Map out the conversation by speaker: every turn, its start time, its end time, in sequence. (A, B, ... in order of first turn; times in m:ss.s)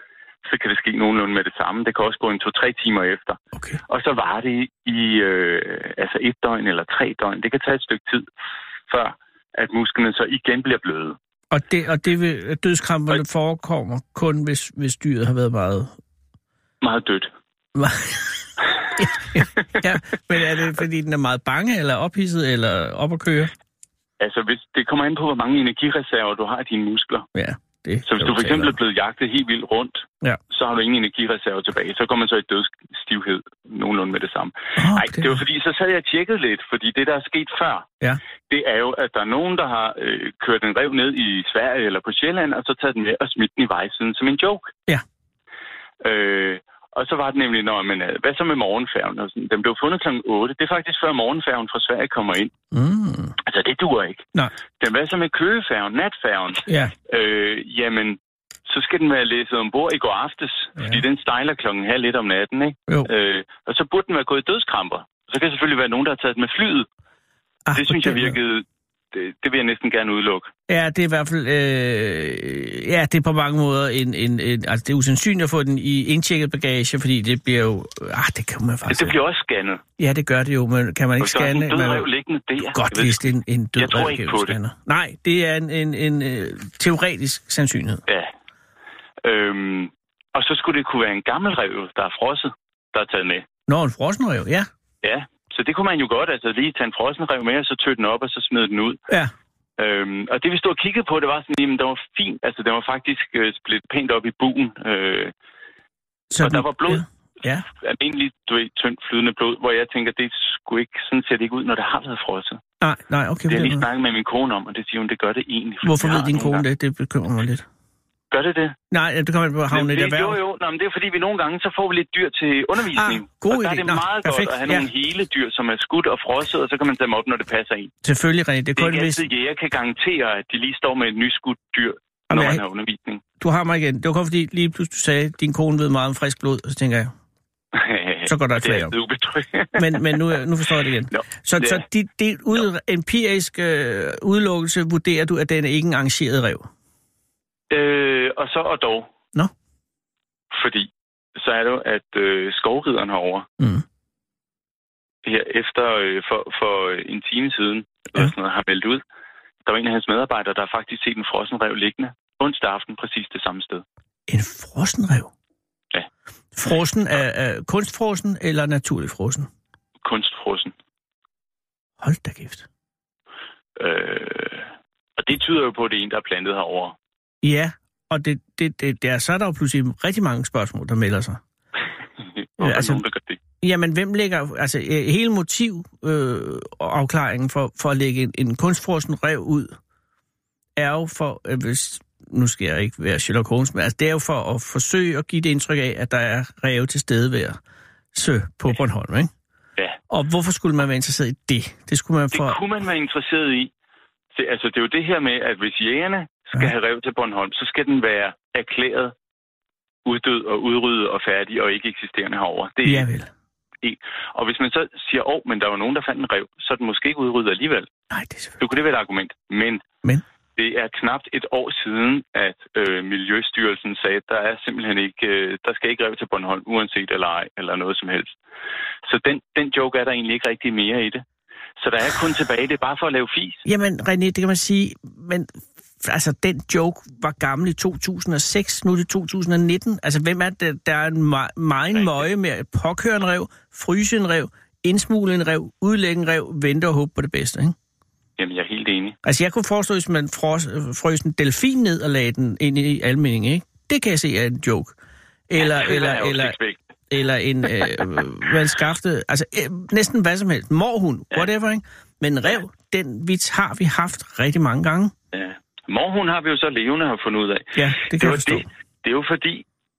0:00.4-0:08.3 A
0:03.5-0:03.8 B
0:08.9-0:11.2 A
0:11.5-0:16.0 B
0:16.8-0:17.3 A
0:17.7-0:23.5 B
0:24.2-0:27.3 A
0:27.3-0:28.8 B
0:28.0-0:37.9 A
0:34.8-0:35.3 B
0:38.5-0:44.7 A
0:46.0-0:52.5 A
0:52.7-0:53.4 B
0:53.4-0:54.2 A
0:54.8-1:06.9 A
0:56.6-0:56.9 B
1:07.6-1:08.4 B
1:07.7-1:10.5 A
1:10.7-1:19.1 B
1:18.9-1:19.8 A
1:20.0-1:22.1 B
1:21.2-1:24.6 A
1:22.7-1:28.0 B
1:29.2-1:33.4 A
1:33.7-1:34.7 B
1:35.0-1:39.0 A
1:39.8-1:45.3 A
1:46.3-1:47.6 B
1:46.4-1:47.0 A
1:47.8-1:52.6 A
1:52.8-1:53.8 B
1:53.5-1:56.6 A
1:55.8-1:57.6 B
1:58.3-1:58.8 A
1:58.9-2:00.4 B
1:59.7-2:07.9 A
2:02.9-2:04.9 B
2:08.0-2:09.2 B
2:08.8-2:13.2 A
2:12.3-2:12.6 B
2:13.4-2:17.1 B
2:17.7-2:20.2 A
2:18.2-2:18.9 B
2:19.7-2:26.7 B
2:21.1-2:21.8 A
2:27.7-2:29.1 A
2:30.5-2:33.5 A
2:33.6-2:33.8 B
2:35.2-2:39.0 A
2:39.6-2:43.8 A
2:44.3-2:45.3 B
2:46.6-2:49.5 B
2:50.0-2:50.7 A
2:52.0-2:52.7 B
2:53.8-2:57.0 A
2:57.4-3:01.4 B
3:02.4-3:03.4 A
3:02.6-3:03.0 B
3:03.6-3:09.7 B
3:10.8-3:17.6 B
3:18.1-3:19.3 B
3:20.1-3:22.6 B
3:22.3-3:23.7 A
3:24.3-3:29.1 A
3:30.0-3:33.0 A
3:32.8-3:33.3 B
3:33.8-3:37.9 A
3:38.1-3:38.6 B
3:38.6-3:39.8 A
3:40.6-3:48.4 A
3:49.0-3:51.2 A
3:51.8-3:53.6 A
3:53.6-4:07.8 B
4:08.4-4:09.2 A
4:09.2-4:14.9 B
4:15.5-4:16.6 B
4:15.6-4:16.8 A
4:17.1-4:25.1 B
4:25.3-4:29.6 A
4:27.8-4:28.7 B